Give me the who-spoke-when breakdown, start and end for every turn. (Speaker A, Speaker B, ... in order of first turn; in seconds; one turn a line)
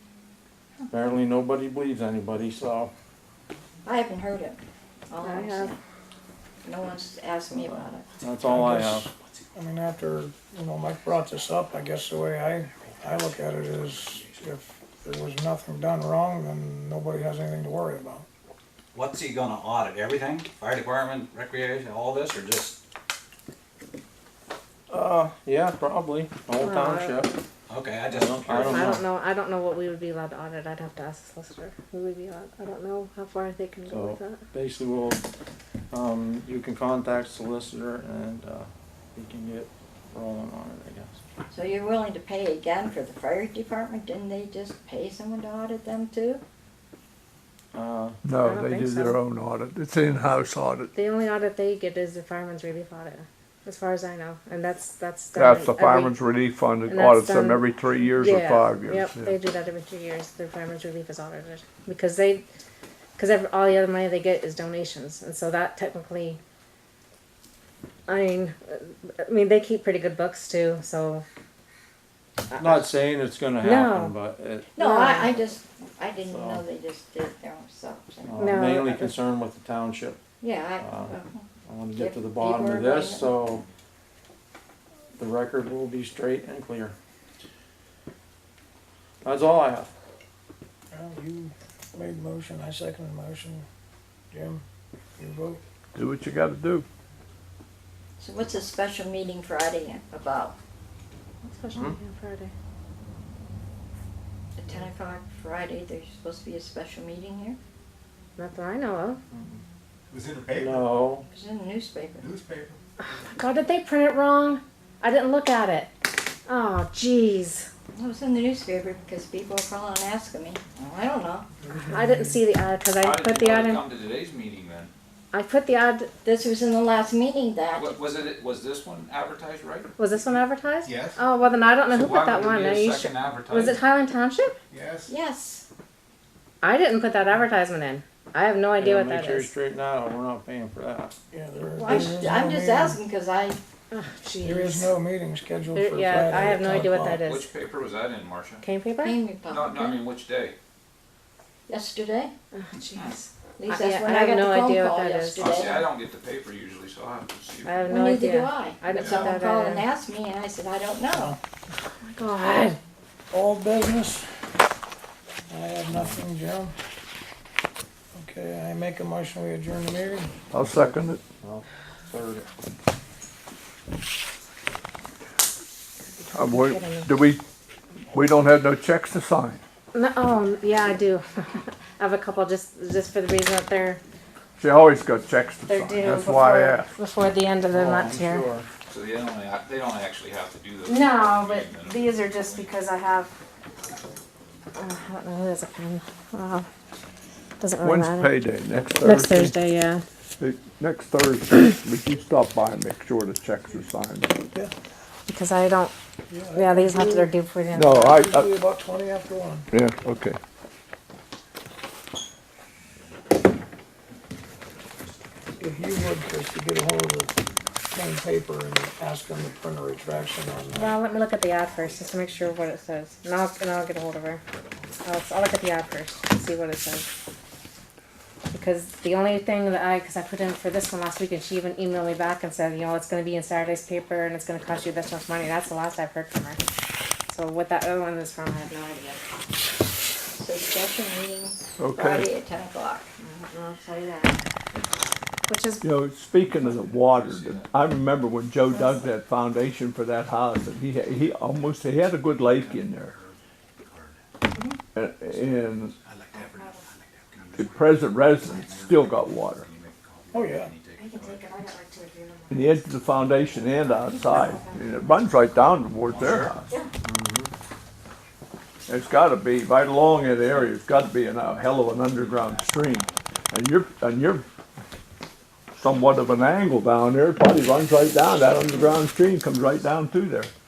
Speaker A: 0.9-2.9
Speaker B: 3.8-5.8
Speaker C: 5.2-5.7
Speaker B: 6.6-8.1
Speaker A: 8.2-9.1
Speaker D: 8.4-18.2
Speaker E: 18.9-22.8
Speaker A: 24.9-27.4
Speaker C: 26.6-27.2
Speaker E: 27.7-28.9
Speaker A: 28.1-29.1
Speaker C: 28.6-34.4
Speaker A: 33.9-35.2
Speaker A: 35.9-41.2
Speaker B: 41.5-46.4
Speaker A: 47.7-48.2
Speaker F: 48.2-50.9
Speaker C: 48.4-49.2
Speaker C: 50.9-56.2
Speaker F: 55.3-59.4
Speaker C: 56.9-62.5
Speaker C: 63.2-66.4
Speaker C: 68.1-71.2
Speaker C: 72.5-72.9
Speaker A: 72.6-74.7
Speaker C: 73.6-74.2
Speaker B: 74.7-78.6
Speaker C: 74.8-75.4
Speaker A: 76.2-76.6
Speaker A: 78.3-80.2
Speaker C: 78.3-79.1
Speaker B: 80.4-83.3
Speaker A: 80.8-83.6
Speaker A: 85.2-87.0
Speaker A: 89.2-89.9
Speaker D: 90.9-93.7
Speaker D: 94.3-94.6
Speaker D: 95.2-95.6
Speaker F: 95.9-96.8
Speaker B: 98.2-100.5
Speaker C: 101.4-102.5
Speaker B: 104.6-107.6
Speaker C: 108.4-109.2
Speaker A: 109.3-109.6
Speaker G: 110.1-110.9
Speaker A: 110.5-111.2
Speaker B: 111.2-112.3
Speaker G: 112.2-112.8
Speaker C: 113.0-115.9
Speaker C: 116.5-117.7
Speaker B: 117.9-121.5
Speaker C: 121.8-123.8
Speaker E: 123.0-124.9
Speaker C: 125.3-126.1
Speaker B: 126.2-128.0
Speaker E: 127.7-129.9
Speaker C: 130.0-134.6
Speaker G: 130.8-131.2
Speaker E: 131.8-133.8
Speaker G: 134.7-135.1
Speaker B: 135.1-135.6
Speaker C: 136.6-139.5
Speaker A: 138.8-141.1
Speaker D: 141.3-143.0
Speaker B: 141.7-143.6
Speaker C: 143.9-144.9
Speaker D: 144.4-147.2
Speaker C: 145.7-147.5
Speaker E: 147.2-148.6
Speaker C: 148.6-149.2
Speaker B: 149.0-150.0
Speaker E: 149.4-150.5
Speaker B: 151.7-152.3
Speaker C: 152.5-155.6
Speaker B: 153.6-155.9
Speaker E: 155.4-158.0
Speaker C: 157.6-159.9
Speaker B: 157.9-161.4
Speaker D: 161.1-161.4
Speaker C: 162.0-162.8
Speaker D: 163.3-164.4
Speaker D: 165.5-166.7
Speaker D: 168.1-170.3
Speaker F: 170.5-171.2
Speaker A: 170.5-172.5
Speaker C: 176.1-177.1
Speaker F: 176.3-177.4
Speaker F: 178.1-179.6
Speaker C: 179.9-184.0
Speaker F: 184.6-186.9
Speaker C: 185.7-188.5
Speaker A: 187.7-188.7
Speaker E: 188.9-192.7
Speaker C: 190.8-193.3
Speaker C: 194.7-196.7
Speaker C: 197.6-198.3
Speaker F: 197.8-199.6
Speaker C: 199.0-200.0
Speaker F: 200.4-204.3
Speaker C: 205.3-205.9
Speaker D: 206.3-207.3
Speaker C: 206.5-208.1
Speaker F: 207.7-208.5
Speaker D: 207.9-209.7
Speaker F: 209.7-210.4
Speaker D: 215.6-217.3
Speaker D: 217.9-221.0
Speaker C: 220.7-224.4
Speaker C: 225.0-227.1
Speaker C: 228.5-236.6
Speaker C: 237.3-239.2
Speaker B: 240.3-243.5
Speaker F: 241.8-242.3
Speaker C: 243.5-244.3
Speaker C: 245.5-245.8
Speaker F: 245.8-253.2
Speaker E: 246.8-247.7
Speaker F: 254.9-255.9
Speaker G: 256.0-256.7
Speaker C: 256.3-256.8
Speaker E: 257.3-261.5
Speaker F: 257.5-259.7
Speaker D: 260.3-260.7
Speaker C: 260.9-262.8
Speaker F: 262.5-266.7
Speaker C: 263.4-265.1
Speaker E: 266.1-266.6
Speaker A: 267.0-267.5
Speaker F: 268.9-274.4
Speaker E: 272.1-273.1
Speaker F: 275.7-280.5